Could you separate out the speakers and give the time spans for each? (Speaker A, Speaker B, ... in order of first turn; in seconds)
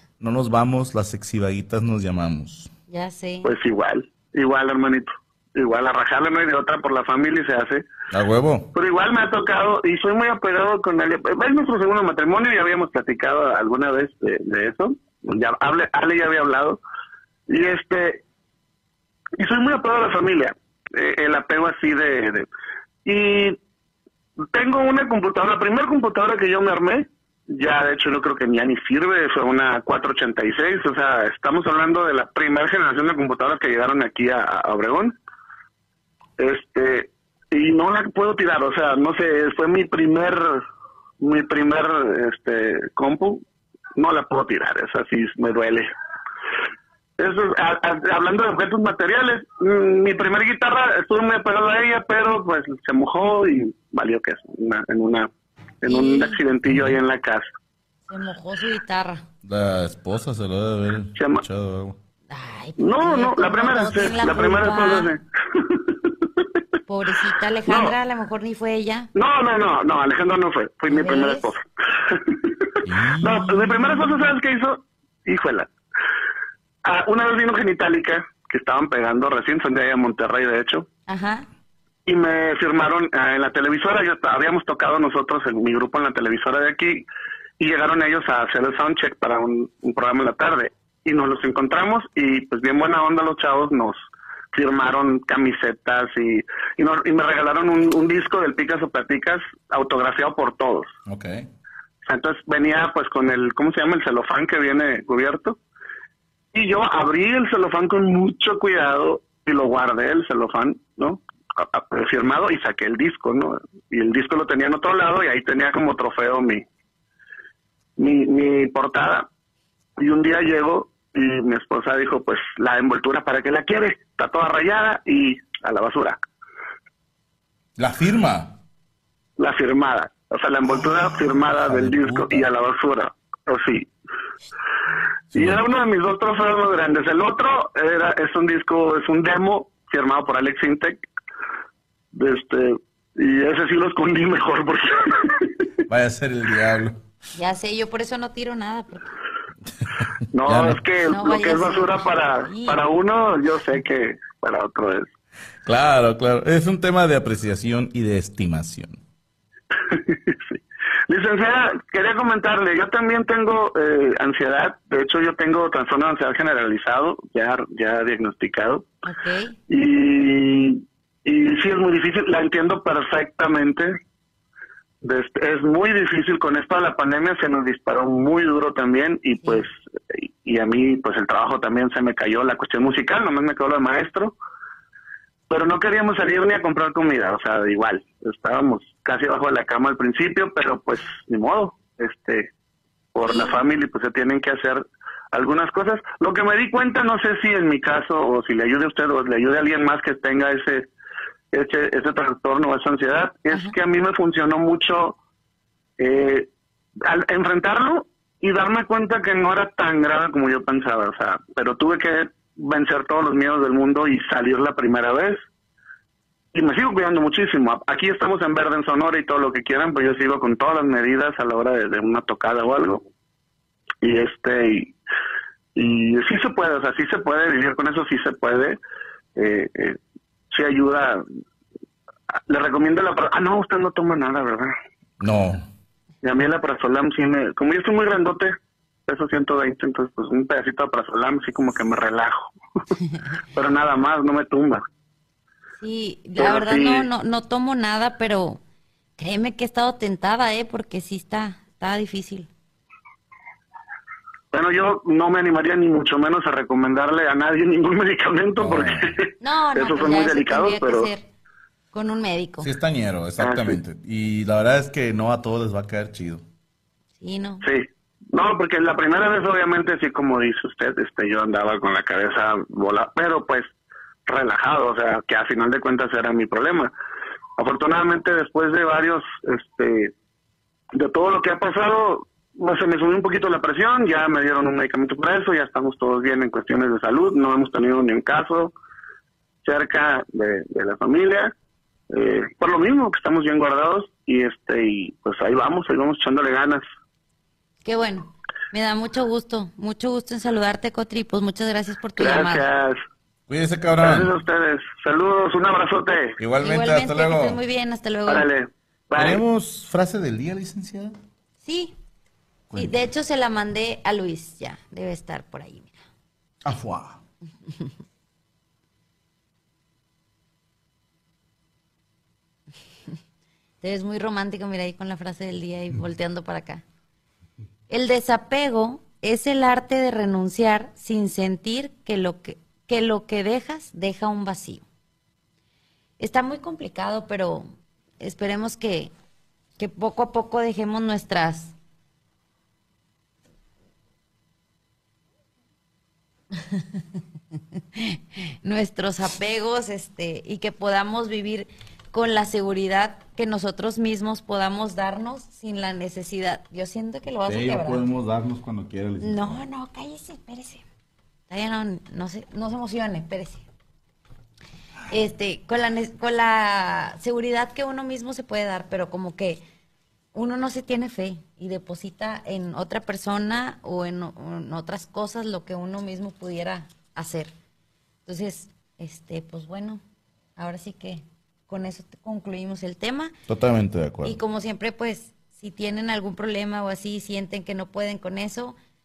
Speaker A: 0.2-2.7, 8.1-8.7, 56.6-57.0, 59.4-62.0, 72.8-74.3, 101.0-101.5, 127.8-128.6, 131.3-132.5, 135.3-135.6, 145.9-147.0, 149.9-150.8, 155.6-159.0, 235.2-235.7, 258.6-259.2, 262.6-266.4, 303.5-304.3, 306.4-307.6, 309.1-311.1, 312.7-312.9, 316.6-317.2, 357.4-359.6, 383.5-384.4
Speaker B: 2.9-3.5, 55.9-56.4, 58.1-59.2, 62.3-65.1, 66.9-69.1, 70.9-71.5, 81.1-81.5, 147.3-149.1, 151.1-152.8, 169.0-169.6, 179.4-179.6, 193.2-193.6, 245.8-248.6, 249.2-252.5, 259.4-261.3, 261.9-262.7, 267.2-267.6, 297.8-302.6, 306.6-308.5, 311.6-311.9, 312.7-316.0, 323.8-326.8, 327.9-334.8, 336.2-337.7, 338.2-339.1, 339.8-341.7, 347.9-358.0, 359.2-360.8, 361.5-363.6, 365.1-369.6, 370.3-377.5, 378.2-380.0, 380.6-383.3, 384.2-388.8
Speaker C: 3.4-7.8, 8.7-16.8, 17.5-18.2, 19.4-22.5, 23.0-23.6, 24.5-35.1, 36.4-40.6, 41.2-43.4, 44.0-45.9, 47.2-55.3, 55.8-57.5, 61.1-61.4, 62.8-65.8, 67.7-67.9, 69.1-72.5, 73.2-75.7, 76.8-80.8, 82.1-87.0, 87.6-94.0, 94.5-100.9, 102.0-105.6, 106.5-116.6, 118.0-119.3, 120.0-126.2, 129.4-133.9, 135.3-141.0, 142.1-145.5, 150.3-155.1, 159.9-168.8, 169.7-173.9, 175.0-184.3, 185.5-192.5, 193.1-200.9, 201.5-205.2, 206.0-206.5, 207.0-215.4, 216.5-223.0, 224.0-224.9, 225.7-228.8, 229.3-230.0, 230.5-231.2, 232.5-234.7, 236.2-238.5, 239.1-242.5, 243.5-244.8, 246.4-247.1, 254.5-261.1, 263.4-263.8, 267.6-273.7, 274.2-276.9, 277.6-280.1, 280.9-288.7, 289.6-291.5, 292.1-296.8, 302.2-303.0, 304.0-306.4, 308.3-309.4